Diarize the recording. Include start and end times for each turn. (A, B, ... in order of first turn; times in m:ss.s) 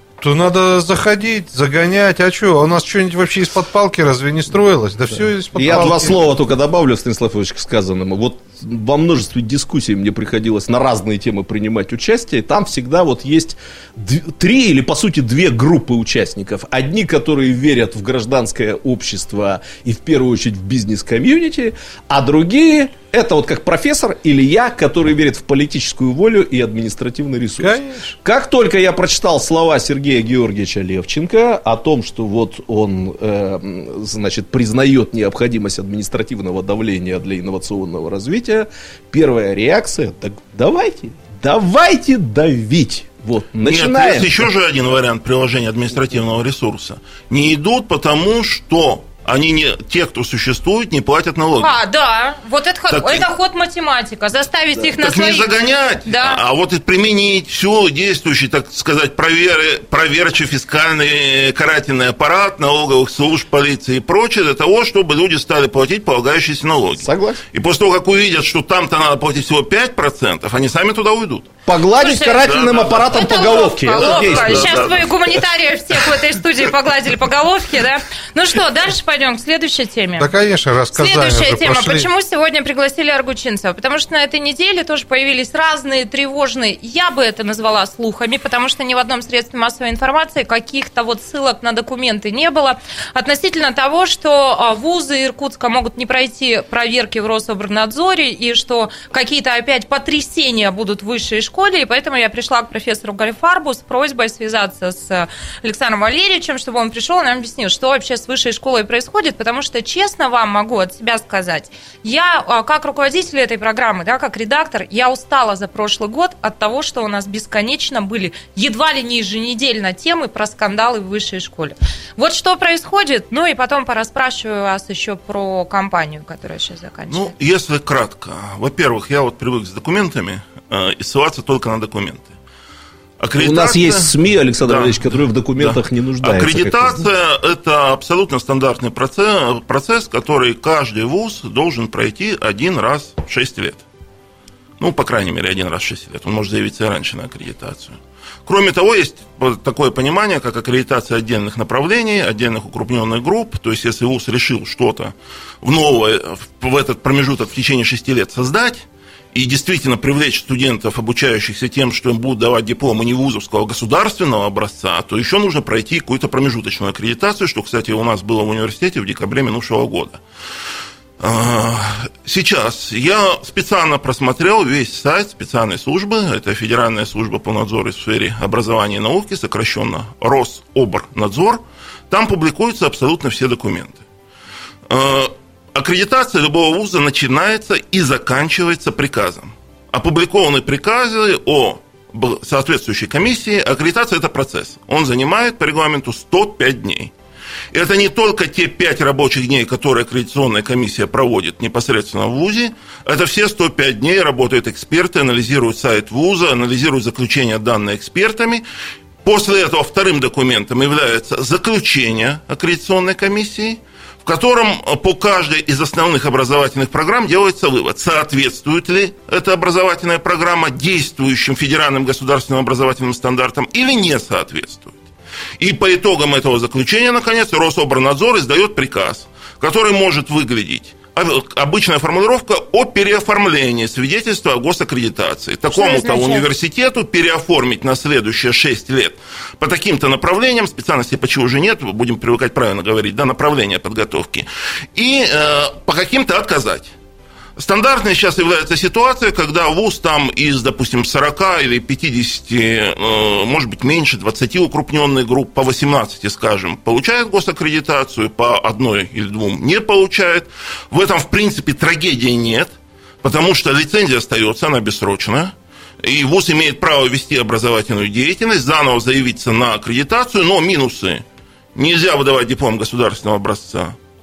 0:00.2-0:06.2 A
0:05.6-0:44.4 B
0:27.6-0:28.2 A
0:43.6-0:51.7 C
0:51.6-0:55.5 D
0:52.9-0:53.3 C
0:54.9-1:11.5 C
0:56.1-0:56.4 D
1:07.0-1:07.4 B
1:11.7-1:14.7 B
1:12.0-1:12.4 D
1:12.4-1:15.4 C
1:13.1-1:20.3 D
1:20.2-1:22.1 A
1:20.9-2:07.3 D
2:07.1-2:12.3 C
2:13.2-2:23.8 C
2:13.4-2:17.1 B
2:24.8-2:50.2 C
2:51.2-3:04.0 C
3:04.9-3:17.1 C
3:17.7-3:28.6 C
3:29.2-3:45.0 C
3:45.6-4:06.9 C
3:55.7-3:56.5 D
4:07.6-4:31.2 C
4:31.8-4:34.0 C